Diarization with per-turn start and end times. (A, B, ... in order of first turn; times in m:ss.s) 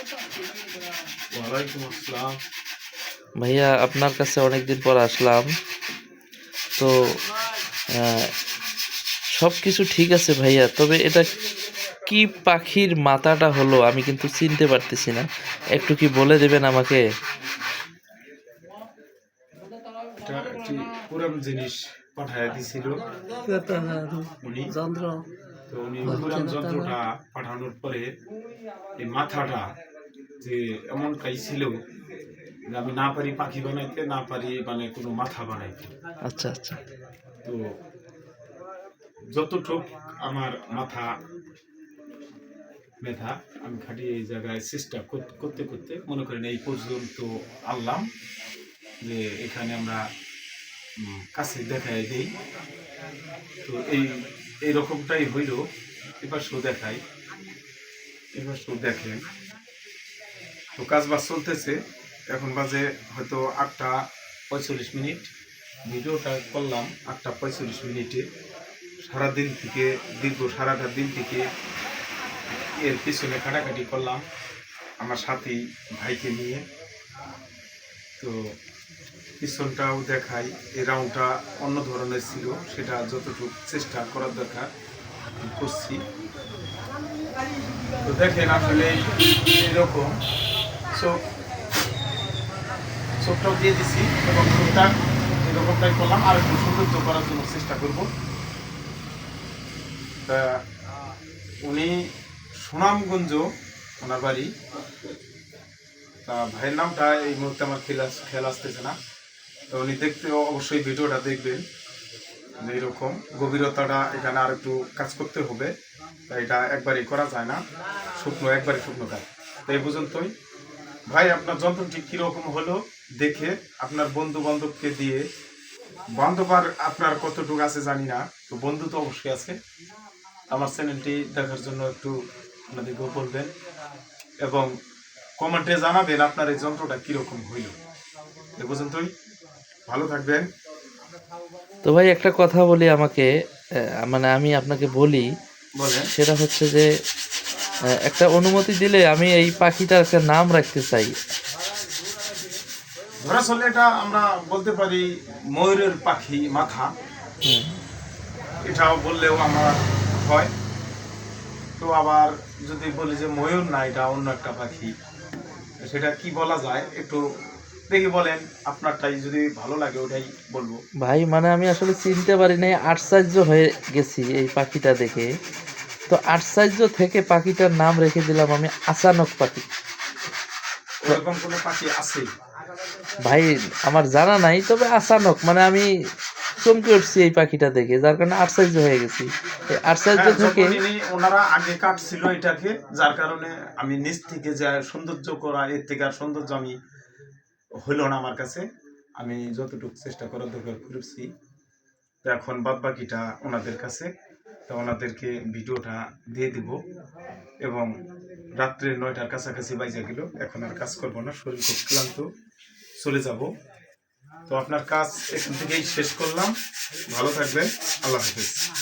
0:01.4-0:02.3 A
0:03.4-0:05.5 B
0:08.0-0:08.3 B
0:09.4-0:11.3 B
0:12.1-0:17.0 B
0:20.2-0:23.0 A
0:23.5-0:25.2 C
0:24.4-0:24.7 A
0:25.7-0:28.1 A
0:26.1-0:26.4 B
0:26.1-0:27.0 C
0:29.0-0:29.6 A
0:30.4-0:31.7 A
0:32.7-0:35.9 A
0:36.3-0:36.8 B
0:39.3-0:41.1 A
0:43.0-0:48.0 A
0:49.0-0:50.0 A
0:51.0-0:52.3 A
0:53.6-0:55.6 A
0:56.2-0:57.0 A
0:58.4-0:59.2 A
1:00.8-1:01.8 A
1:02.3-1:05.3 A
1:05.9-1:08.2 A
1:09.1-1:11.4 A
1:12.8-1:14.2 A
1:15.0-1:16.6 A
1:19.4-1:24.7 A
1:25.4-1:26.0 A
1:28.0-1:30.1 A
1:33.2-1:38.1 A
1:40.3-1:40.6 A
1:41.6-1:42.1 A
1:42.6-1:43.4 A
1:44.0-1:44.5 A
1:46.3-1:48.9 A
1:49.7-1:51.6 A
1:52.6-1:55.7 A
1:56.3-1:57.6 A
1:58.2-2:00.3 A
2:01.1-2:05.2 A
2:06.2-2:09.6 A
2:10.5-2:12.1 A
2:12.7-2:13.5 A
2:14.4-2:14.7 A
2:15.4-2:17.7 A
2:18.6-2:19.1 A
2:19.9-2:20.5 A
2:21.8-2:23.3 B
2:24.0-2:25.3 B
2:25.8-2:26.1 A
2:26.1-2:26.9 B
2:28.0-2:31.2 B
2:33.2-2:36.9 A
2:37.4-2:37.8 B
2:38.7-2:40.5 A
2:41.8-2:44.9 A
2:45.9-2:47.2 A
2:47.9-2:50.8 A
2:51.0-2:55.3 B
2:56.1-2:59.7 B
3:01.0-3:02.3 A
3:03.2-3:05.9 B
3:06.6-3:10.8 B
3:10.2-3:16.7 A
3:17.8-3:18.6 A
3:19.2-3:21.3 A
3:22.2-3:24.1 A
3:24.7-3:26.8 A
3:28.6-3:32.2 A
3:33.0-3:33.5 A
3:34.5-3:36.5 A
3:37.1-3:38.6 A